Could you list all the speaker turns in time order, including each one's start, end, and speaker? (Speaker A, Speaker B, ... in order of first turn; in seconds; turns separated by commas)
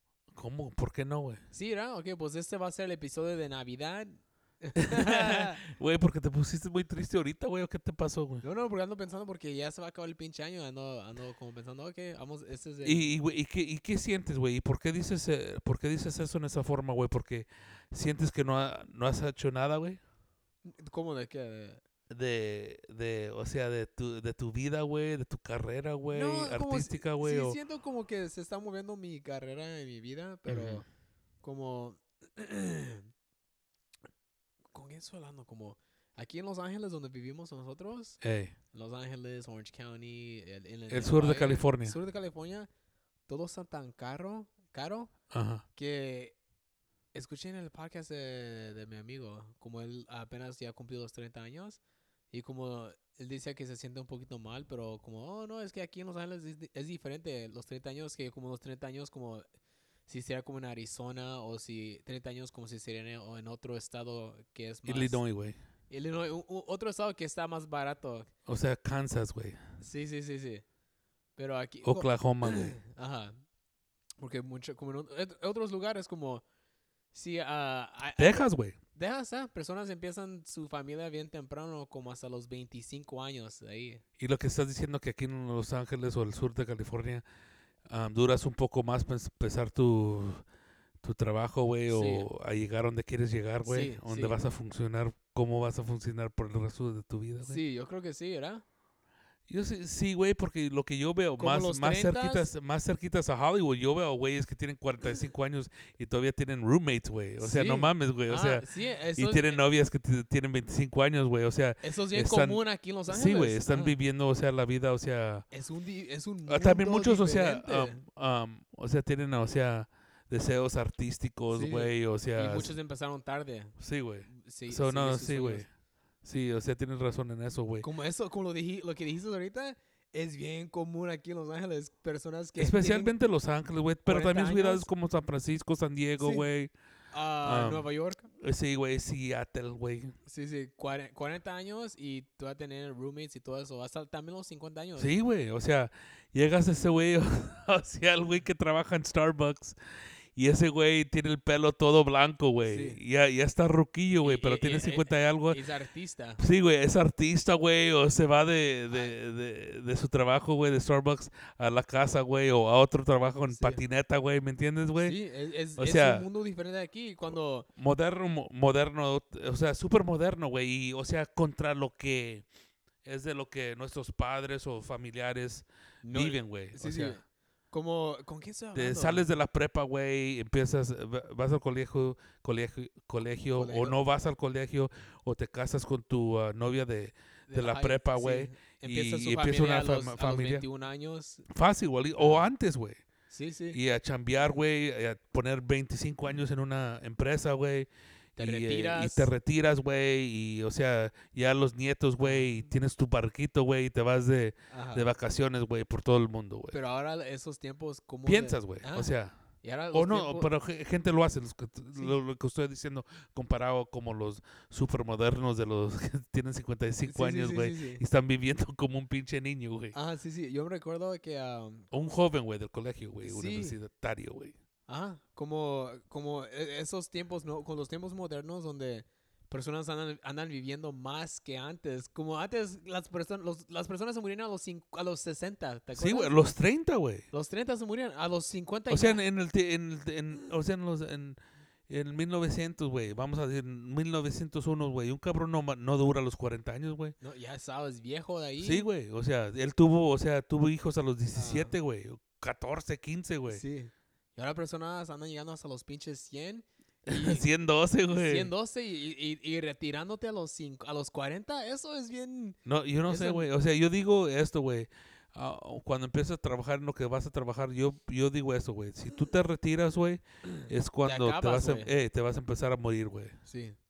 Speaker A: 0.3-1.4, Speaker B: 1.5-5.6, Speaker A: 4.8-8.4, Speaker B: 8.4-13.1, Speaker A: 12.8-20.0, Speaker B: 20.6-21.8, Speaker A: 22.1-27.6, Speaker B: 26.1-30.8, Speaker A: 30.5-30.8, Speaker B: 31.4-33.1, Speaker B: 34.7-38.2, Speaker A: 38.2-38.5, Speaker B: 38.7-42.7, Speaker A: 40.9-42.0, Speaker B: 43.3-45.1, Speaker A: 45.3-45.6, Speaker B: 45.7-46.4, Speaker B: 47.1-51.8, Speaker B: 52.3-59.5, Speaker B: 60.1-65.2, Speaker A: 64.8-65.6, Speaker B: 65.9-68.3, Speaker A: 68.5-69.6, Speaker B: 69.8-70.6, Speaker B: 71.3-73.4, Speaker A: 71.8-72.8, Speaker B: 74.2-76.4, Speaker B: 77.1-84.0, Speaker A: 78.2-78.8, Speaker A: 84.2-87.2, Speaker A: 87.8-90.4, Speaker A: 91.0-97.6, Speaker B: 91.9-92.3, Speaker B: 93.6-94.4, Speaker B: 97.4-98.6, Speaker A: 99.5-115.5, Speaker B: 101.4-102.5, Speaker B: 107.4-109.6, Speaker B: 111.8-114.0, Speaker B: 115.5-118.0, Speaker A: 116.5-122.7, Speaker B: 121.5-125.6, Speaker A: 123.8-125.7, Speaker A: 126.2-127.8, Speaker B: 127.8-133.1, Speaker A: 132.6-136.7, Speaker B: 134.1-134.9, Speaker B: 136.2-136.4, Speaker B: 137.1-138.3, Speaker A: 137.4-137.8, Speaker A: 138.4-140.1, Speaker B: 140.2-145.1, Speaker A: 145.0-149.8, Speaker A: 150.3-155.6, Speaker B: 152.6-153.0, Speaker B: 154.2-156.4, Speaker A: 156.4-165.2, Speaker B: 158.9-159.1, Speaker B: 163.4-163.8, Speaker B: 165.0-167.7, Speaker A: 165.8-166.3, Speaker A: 167.8-172.4, Speaker A: 173.0-177.2, Speaker B: 176.0-179.3, Speaker A: 178.7-190.6, Speaker B: 183.5-184.0, Speaker B: 187.5-191.4, Speaker A: 191.5-193.0, Speaker B: 192.2-192.5, Speaker B: 193.3-193.8, Speaker A: 193.7-206.8, Speaker B: 198.4-199.3, Speaker B: 202.2-202.7, Speaker B: 204.7-205.1, Speaker B: 206.7-210.5, Speaker A: 208.2-209.3, Speaker A: 209.9-219.9, Speaker B: 217.0-218.0, Speaker B: 219.9-221.9, Speaker A: 221.9-224.6, Speaker B: 223.2-223.8, Speaker B: 224.9-236.4, Speaker A: 235.9-237.3, Speaker B: 237.3-239.2, Speaker A: 238.9-247.2, Speaker B: 247.2-248.8, Speaker A: 248.6-253.6, Speaker B: 251.3-251.7, Speaker B: 253.5-257.5, Speaker A: 257.1-258.5, Speaker B: 258.1-263.5, Speaker A: 262.6-273.4, Speaker B: 270.6-271.9, Speaker B: 273.4-273.8